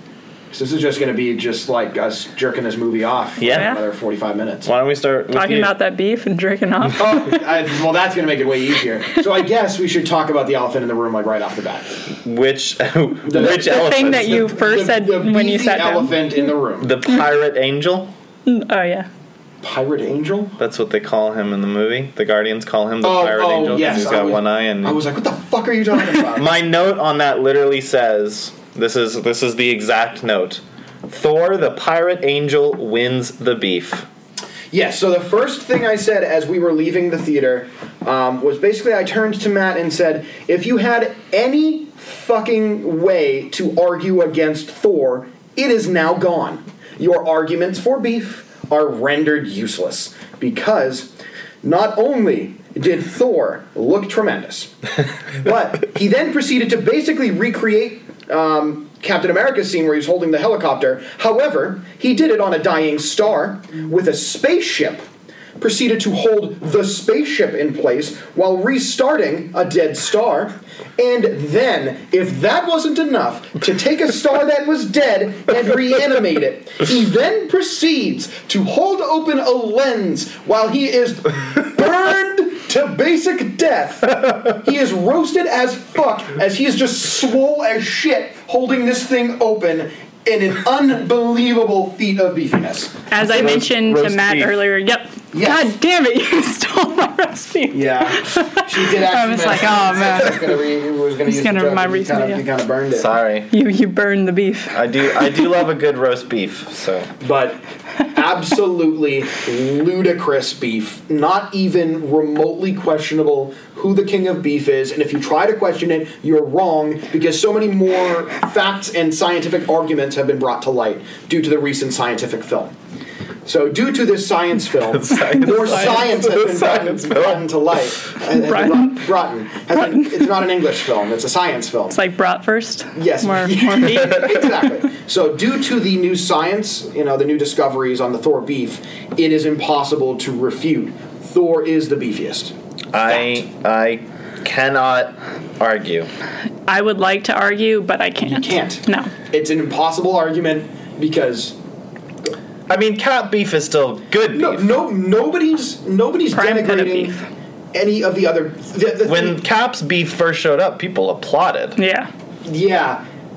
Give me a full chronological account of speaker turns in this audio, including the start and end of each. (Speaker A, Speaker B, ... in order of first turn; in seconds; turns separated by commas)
Speaker A: 0.5-4.7, Speaker B: 3.4-3.8, Speaker C: 3.4-3.8, Speaker B: 4.6-5.7, Speaker C: 5.3-7.4, Speaker A: 7.0-12.0, Speaker B: 12.2-14.5, Speaker A: 13.2-16.9, Speaker C: 13.4-16.5, Speaker B: 16.8-18.1, Speaker C: 18.4-19.1, Speaker A: 19.6-20.5, Speaker B: 20.6-25.0, Speaker A: 23.0-26.5, Speaker B: 26.3-34.1, Speaker A: 34.7-51.1, Speaker A: 51.6-54.7, Speaker A: 55.3-65.0, Speaker A: 65.6-93.0, Speaker C: 93.1-100.6, Speaker B: 93.2-94.6, Speaker A: 95.3-95.7, Speaker A: 97.7-103.1, Speaker C: 101.3-102.4, Speaker B: 102.9-103.5, Speaker C: 103.5-105.3, Speaker B: 104.7-107.1, Speaker A: 107.2-107.6, Speaker A: 108.1-122.7, Speaker A: 123.5-132.0, Speaker B: 124.8-127.4, Speaker C: 128.3-129.0, Speaker C: 129.9-130.2, Speaker C: 131.9-134.6, Speaker A: 132.9-142.5, Speaker B: 142.9-146.1, Speaker C: 146.7-149.1, Speaker A: 148.2-151.6, Speaker B: 152.7-154.8, Speaker A: 154.3-157.2, Speaker C: 156.3-157.2, Speaker A: 157.7-159.4, Speaker B: 159.0-161.8, Speaker C: 161.8-162.1, Speaker A: 162.4-163.0